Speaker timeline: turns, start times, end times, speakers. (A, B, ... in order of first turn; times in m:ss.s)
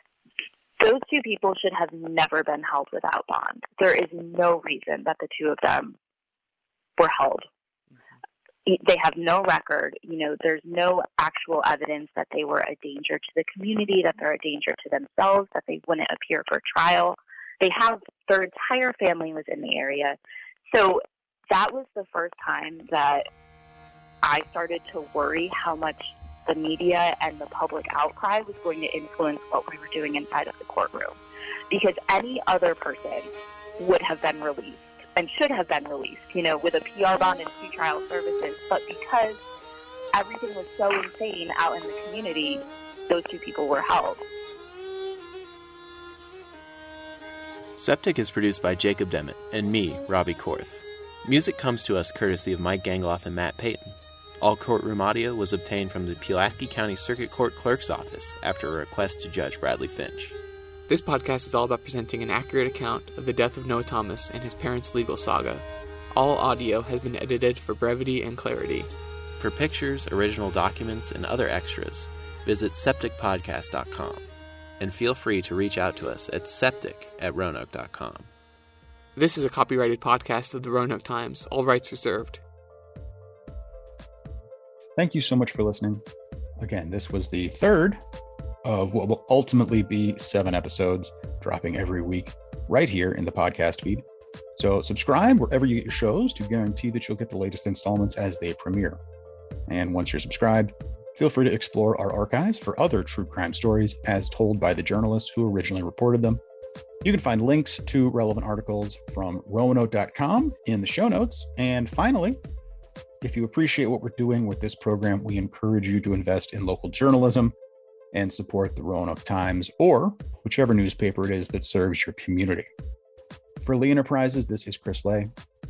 0:00.8-0:06.0 A
0:07.0-0:07.4 A
0:08.6-0:20.2 A
0:20.7-0:23.2 A
0:24.2-0:31.2 A
0:31.7-0:39.4 A
0:40.1-0:44.2 A
0:47.8-1:00.4 B
1:00.9-1:08.9 C
1:09.4-1:14.2 B
1:14.8-1:18.3 B
1:19.2-1:22.4 C
1:25.0-1:26.0 D
1:26.6-1:28.0 D
1:28.6-1:34.0 D
1:34.6-1:39.0 D
1:39.7-1:46.4 D
1:47.0-1:52.4 D
1:53.2-1:57.5 D
1:58.1-2:02.7 D
2:03.6-2:05.3 D